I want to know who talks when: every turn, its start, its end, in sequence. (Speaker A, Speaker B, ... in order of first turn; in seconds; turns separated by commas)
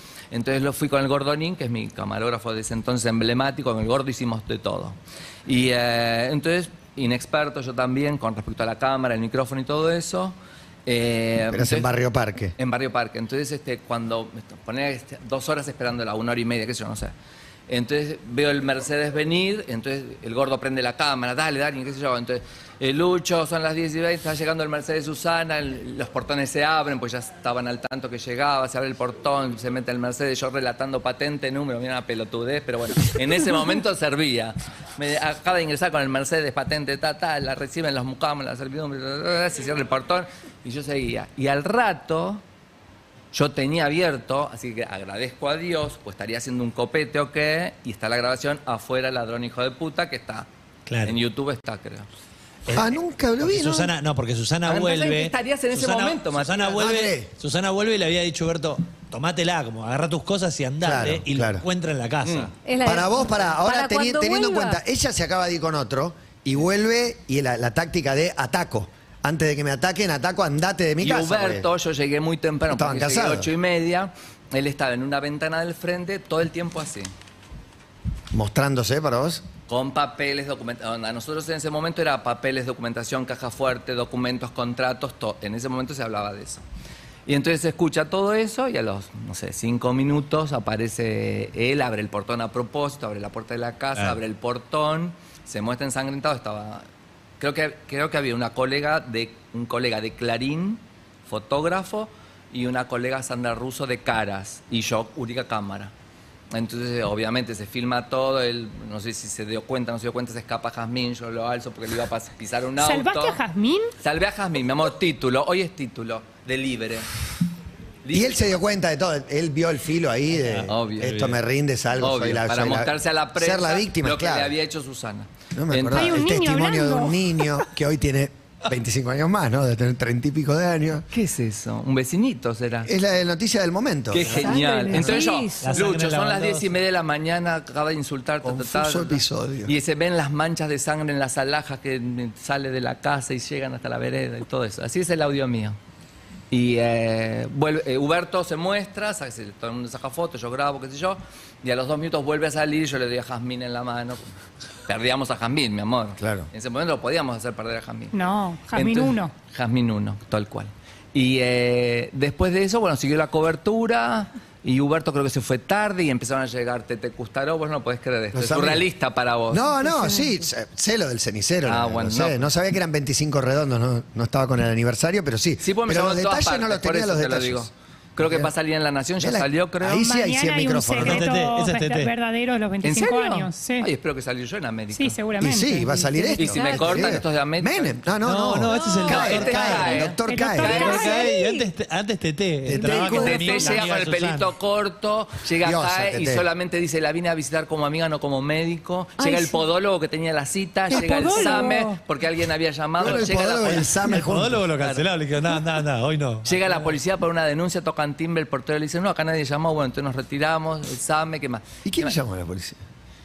Speaker A: 0.3-11.9, Speaker B: 11.5-12.5, Speaker A: 12.6-17.1, Speaker A: 17.7-42.4, Speaker A: 43.3-50.5, Speaker C: 50.9-51.2, Speaker A: 51.0-52.1, Speaker C: 52.7-62.5, Speaker B: 52.7-53.9, Speaker A: 54.6-56.9, Speaker B: 56.8-57.3, Speaker B: 60.8-61.6, Speaker A: 62.2-62.5, Speaker D: 62.6-64.8, Speaker B: 62.8-71.7, Speaker A: 71.0-77.1, Speaker B: 72.7-73.5, Speaker B: 78.3-79.4, Speaker A: 79.7-86.6, Speaker A: 87.2-96.9, Speaker A: 97.4-105.9, Speaker A: 106.5-113.4, Speaker E: 112.8-113.9, Speaker A: 114.0-117.1, Speaker A: 118.0-118.6, Speaker B: 118.1-124.5, Speaker C: 120.3-121.4, Speaker A: 120.7-121.2, Speaker A: 122.0-126.2, Speaker B: 125.5-131.1, Speaker E: 125.9-127.6, Speaker A: 131.1-132.9, Speaker B: 132.8-134.5, Speaker A: 134.1-145.8, Speaker C: 134.2-136.8, Speaker D: 134.3-135.8, Speaker B: 138.4-139.7, Speaker A: 146.5-154.3, Speaker A: 154.9-158.2, Speaker B: 156.2-156.5, Speaker E: 158.1-159.3, Speaker A: 158.7-169.7, Speaker B: 168.3-168.8, Speaker B: 169.5-178.5, Speaker D: 169.6-170.5, Speaker A: 171.7-172.5, Speaker A: 175.6-180.1, Speaker B: 179.2-181.3, Speaker E: 180.0-183.9, Speaker C: 181.0-182.1, Speaker A: 182.8-185.2, Speaker E: 184.9-185.9, Speaker B: 185.4-191.0, Speaker D: 185.8-186.6, Speaker A: 186.4-187.9, Speaker E: 186.6-187.1, Speaker C: 188.2-190.1, Speaker A: 189.0-191.1, Speaker E: 190.3-191.4, Speaker D: 190.6-191.7, Speaker C: 190.7-194.5, Speaker B: 192.7-193.3, Speaker D: 192.7-193.9, Speaker A: 193.1-204.1, Speaker B: 195.6-196.4, Speaker D: 199.2-199.6, Speaker E: 200.9-202.0, Speaker D: 201.2-201.8, Speaker B: 203.0-204.7, Speaker C: 204.0-206.9, Speaker A: 204.7-205.1, Speaker A: 206.4-212.2, Speaker B: 211.8-212.8